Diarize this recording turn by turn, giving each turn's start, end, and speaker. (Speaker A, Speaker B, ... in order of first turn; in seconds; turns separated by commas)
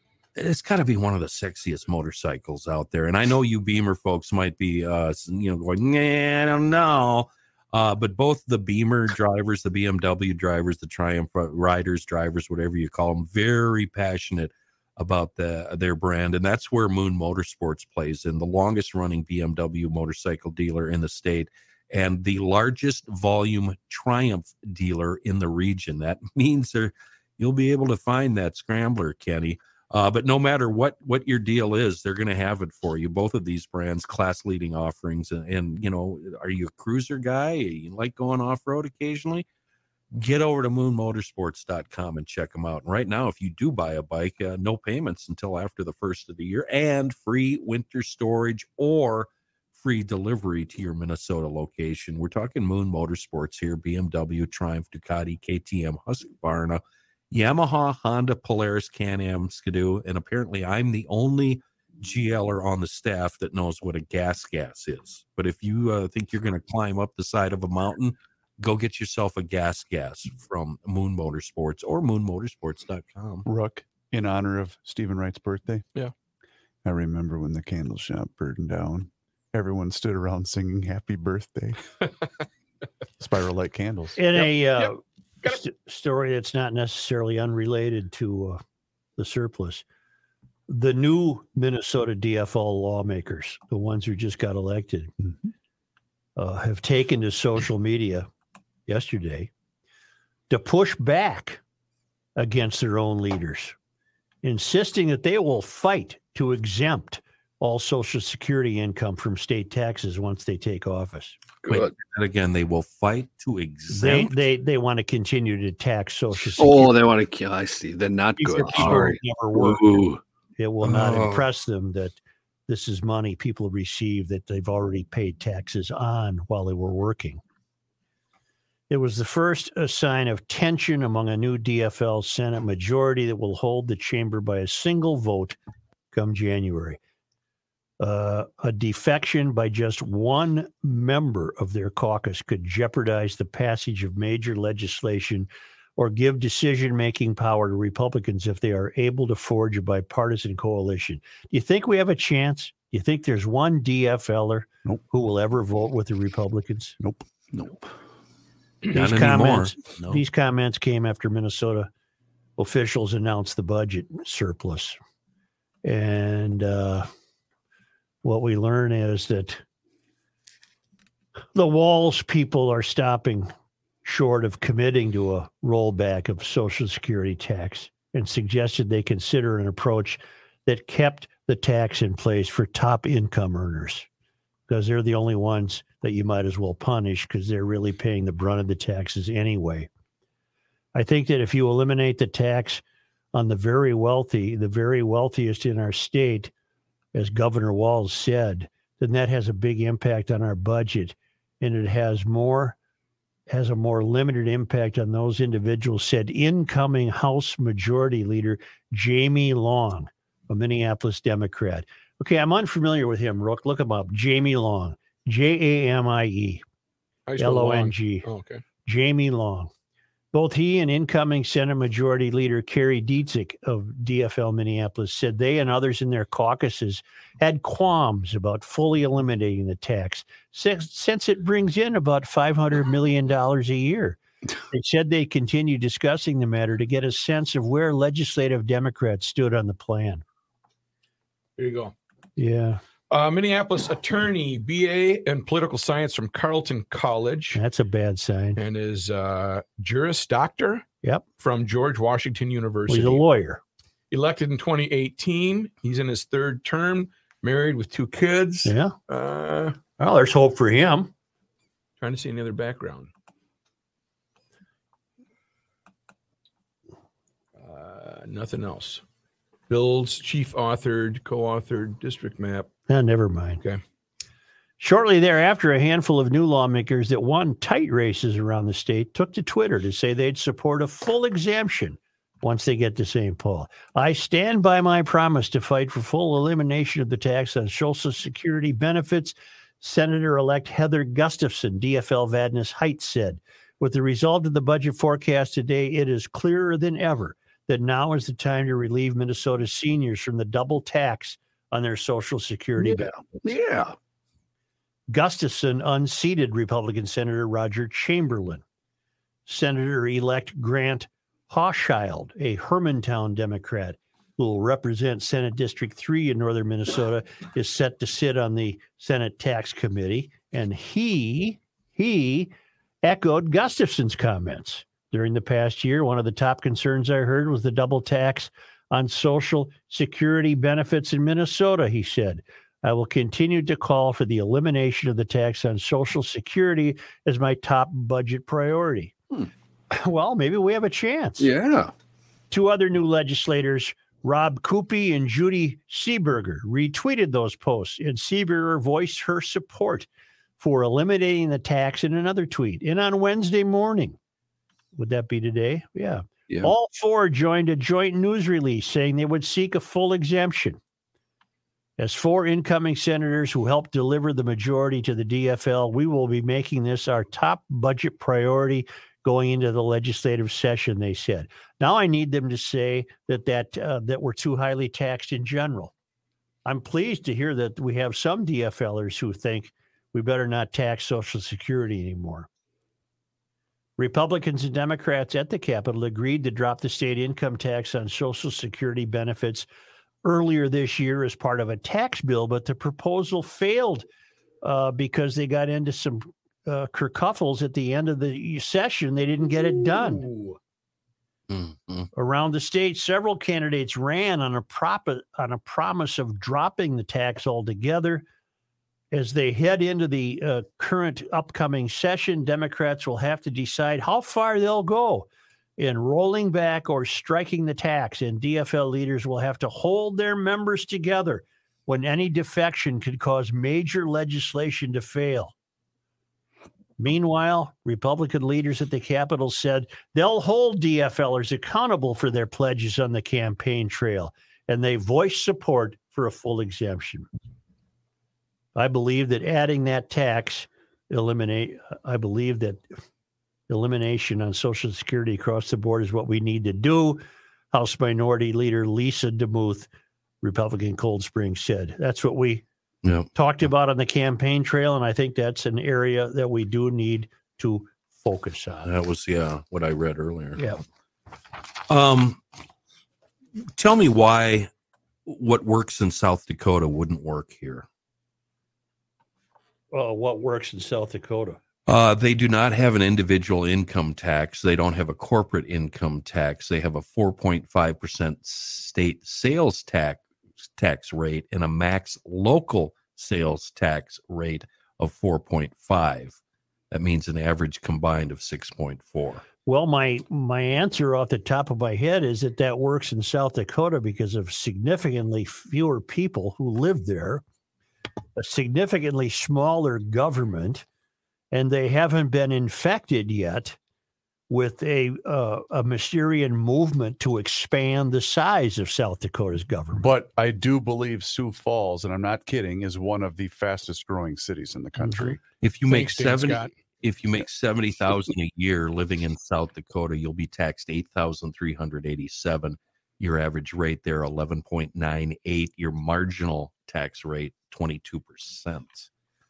Speaker A: 0.4-39.5, Speaker A: 40.1-73.5, Speaker B: 73.5-75.8, Speaker B: 76.8-82.0, Speaker B: 83.2-84.2, Speaker C: 84.2-88.6, Speaker D: 84.3-85.6, Speaker C: 89.2-89.8, Speaker C: 90.7-95.1, Speaker C: 96.4-98.3, Speaker C: 98.9-99.5, Speaker C: 100.5-101.6, Speaker C: 102.4-103.8, Speaker C: 104.4-111.4, Speaker E: 111.6-111.9, Speaker A: 111.7-114.4, Speaker C: 113.9-117.0, Speaker E: 116.6-120.2, Speaker C: 118.4-122.2, Speaker A: 120.8-121.5, Speaker C: 122.7-127.4, Speaker C: 128.9-135.6, Speaker C: 136.1-137.0, Speaker C: 138.0-157.0, Speaker B: 157.0-157.2, Speaker E: 157.5-157.8, Speaker A: 158.9-160.2, Speaker C: 158.9-161.9, Speaker C: 162.6-165.0, Speaker C: 165.8-167.1, Speaker C: 168.2-169.6, Speaker C: 171.5-173.5, Speaker C: 174.0-184.1, Speaker C: 184.7-189.9, Speaker C: 190.9-192.8, Speaker C: 193.3-196.5, Speaker C: 197.1-202.8, Speaker C: 203.5-216.6, Speaker D: 217.3-218.6, Speaker C: 217.4-218.3, Speaker C: 218.8-219.7, Speaker C: 220.3-240.2, Speaker D: 241.6-241.9, Speaker C: 242.4-242.8, Speaker D: 243.1-247.6, Speaker C: 247.5-248.6, Speaker D: 248.6-250.8, Speaker D: 251.4-253.2, Speaker C: 252.9-253.6, Speaker D: 254.1-259.8, Speaker C: 258.6-258.9, Speaker C: 260.0-261.1, Speaker D: 262.0-263.1, Speaker D: 267.6-269.0, Speaker D: 269.7-272.7, Speaker C: 272.9-273.6, Speaker C: 274.8-303.1, Speaker E: 302.8-303.9, Speaker C: 305.1-308.6, Speaker C: 309.5-322.5, Speaker C: 323.0-339.1, Speaker C: 339.9-341.5, Speaker E: 341.4-341.9, Speaker C: 342.5-350.1, Speaker C: 350.6-354.2, Speaker C: 354.9-360.8, Speaker C: 362.0-375.9, Speaker C: 376.6-382.5, Speaker C: 384.0-389.7, Speaker C: 390.2-394.1, Speaker C: 394.6-400.3, Speaker A: 401.5-402.1, Speaker C: 402.1-408.2, Speaker C: 409.1-425.5, Speaker C: 427.0-437.3, Speaker C: 438.8-442.8, Speaker C: 443.7-449.9, Speaker C: 450.4-452.6, Speaker A: 453.0-453.3, Speaker C: 453.3-458.9, Speaker A: 458.8-460.6, Speaker A: 461.9-462.4, Speaker A: 463.7-464.7, Speaker A: 465.3-467.9, Speaker C: 469.9-471.6, Speaker A: 471.9-480.2, Speaker A: 480.8-486.4, Speaker A: 486.9-489.4, Speaker C: 489.7-497.4, Speaker C: 498.4-500.9, Speaker C: 501.5-503.8, Speaker C: 504.5-510.1, Speaker B: 510.0-515.4, Speaker C: 515.0-515.4, Speaker A: 515.6-529.1, Speaker D: 515.8-516.7